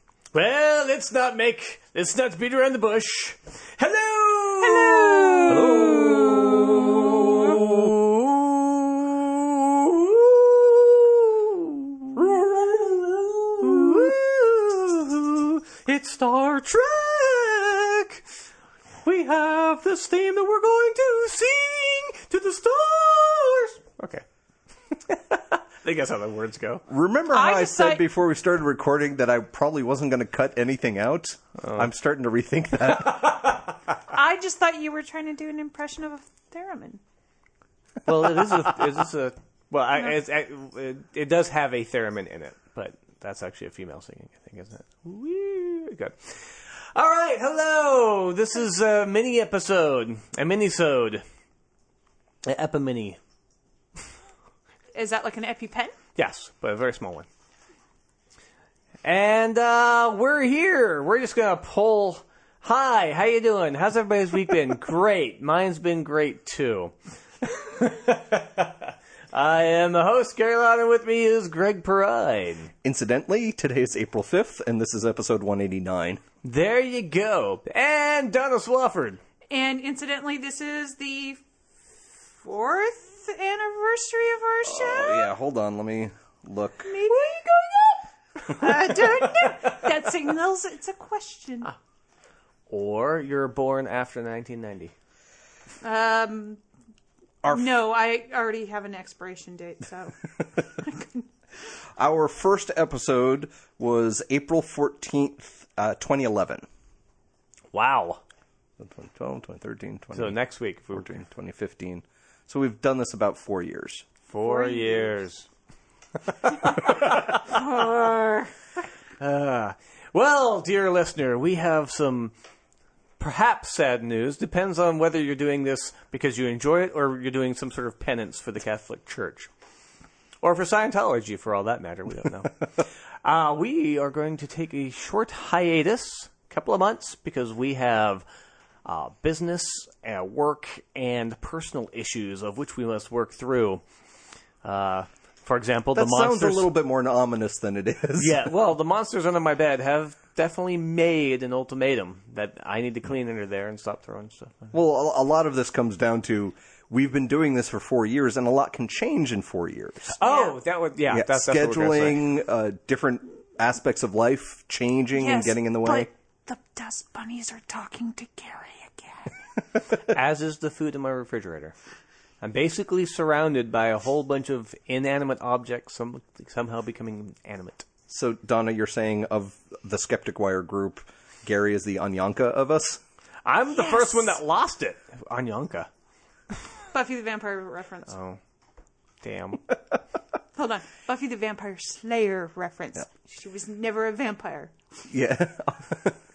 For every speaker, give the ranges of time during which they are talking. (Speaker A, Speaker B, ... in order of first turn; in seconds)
Speaker A: 0.3-18.2, 19.0-24.2, 24.9-26.8, 31.6-31.9, 33.2-33.6, 38.0-51.2, 52.4-53.2, 56.1-57.3, 59.0-72.7, 76.4-79.2, 87.5-88.0, 88.6-89.4, 92.7-94.9, 107.7-108.2, 110.1-111.2, 114.3-115.5, 116.3-117.9, 119.2-122.3, 123.2-129.5, 130.4-138.2, 138.8-143.8, 144.6-146.7, 148.2-154.7, 160.1-162.3, 170.0-171.7, 172.4-177.8, 183.4-185.9, 188.1-188.4, 189.2-189.6
Speaker B: 4.6-6.6, 27.3-28.0, 34.1-37.0, 54.9-55.9, 79.5-81.4, 82.4-85.3, 86.9-87.5, 88.5-91.7, 95.8-96.6, 97.4-101.2, 114.4-115.1, 117.4-118.5, 160.2-160.6, 165.1-169.3, 183.8-184.3, 186.9-188.1, 190.6-194.7
Speaker C: 26.9-33.5, 72.8-76.2, 84.6-86.9, 97.4-97.7, 102.0-106.6, 108.8-110.4, 110.9-114.1, 145.9-148.5, 154.7-160.2, 161.1-166.1, 178.1-183.0, 195.1-196.2